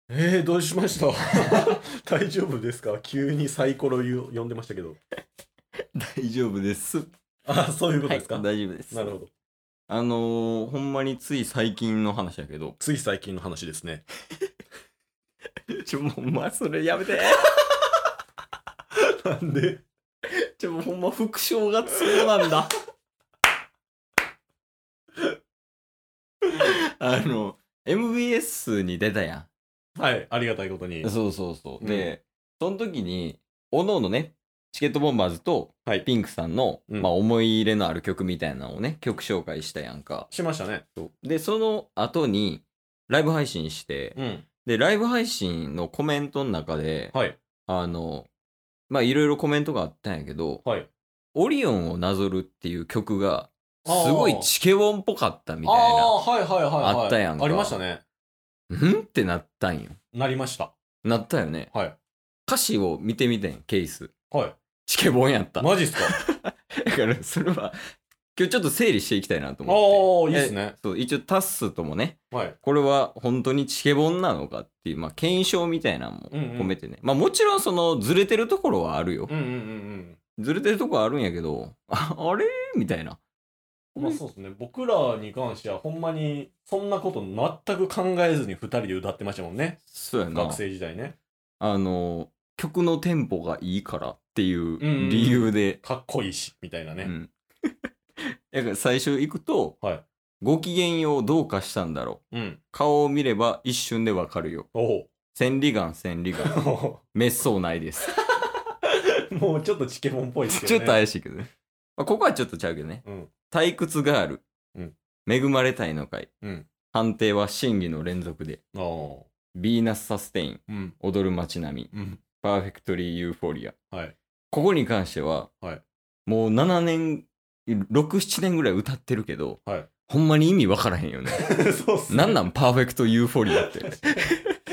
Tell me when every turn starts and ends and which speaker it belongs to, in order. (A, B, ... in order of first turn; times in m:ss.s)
0:00.1-0:05.0 A
0:06.0-0:07.1 B
0:07.5-0:09.3 A
0:08.1-0:09.2 B
0:09.9-0:12.8 B
0:12.8-0:14.0 A
0:15.7-0:17.5 B
0:19.2-0:19.8 A
0:20.4-0:22.7 B
0:26.5-0:29.5 B
0:30.0-0:31.1 A
0:31.0-0:40.3 B
0:31.8-0:32.1 A
0:40.3-0:40.8 A
0:41.0-0:47.2 B
0:44.2-0:44.5 A
0:47.1-0:47.4 A
0:47.7-0:48.3 B
0:48.9-0:50.6 B
0:51.4-0:56.2 B
0:53.8-0:54.5 A
0:55.6-0:58.0 A
0:56.8-0:57.8 B
0:58.7-1:00.0 B
1:00.1-1:00.7 A
1:01.0-1:01.7 B
1:01.7-1:02.0 A
1:02.5-1:04.1 B
1:04.3-1:04.6 A
1:04.9-1:07.8 B
1:05.6-1:06.2 A
1:08.4-1:19.3 B
1:09.6-1:10.8 A
1:16.3-1:16.8 A
1:19.3-1:20.2 A
1:20.4-1:23.2 B
1:24.0-1:24.2 B
1:24.0-1:29.8 A
1:29.9-1:30.6 B
1:30.3-1:31.2 A
1:31.6-1:35.8 B
1:34.8-1:37.1 A
1:37.0-1:37.7 B
1:38.5-1:39.8 B
1:40.4-1:42.2 B
1:42.3-1:42.6 A
1:42.7-1:44.7 B
1:44.7-1:45.1 A
1:45.3-1:48.1 B
1:46.4-1:47.0 A
1:48.4-1:51.0 A
1:50.5-1:54.4 B
1:53.0-1:53.3 A
1:55.3-1:56.3 B
1:56.4-1:56.7 A
1:56.9-1:58.6 B
1:58.7-1:59.3 A
1:59.5-2:03.8 B
2:00.7-2:01.0 A
2:01.9-2:02.2 A
2:04.5-2:05.5 B
2:06.3-2:11.5 B
2:11.4-2:12.4 A
2:12.1-2:14.4 B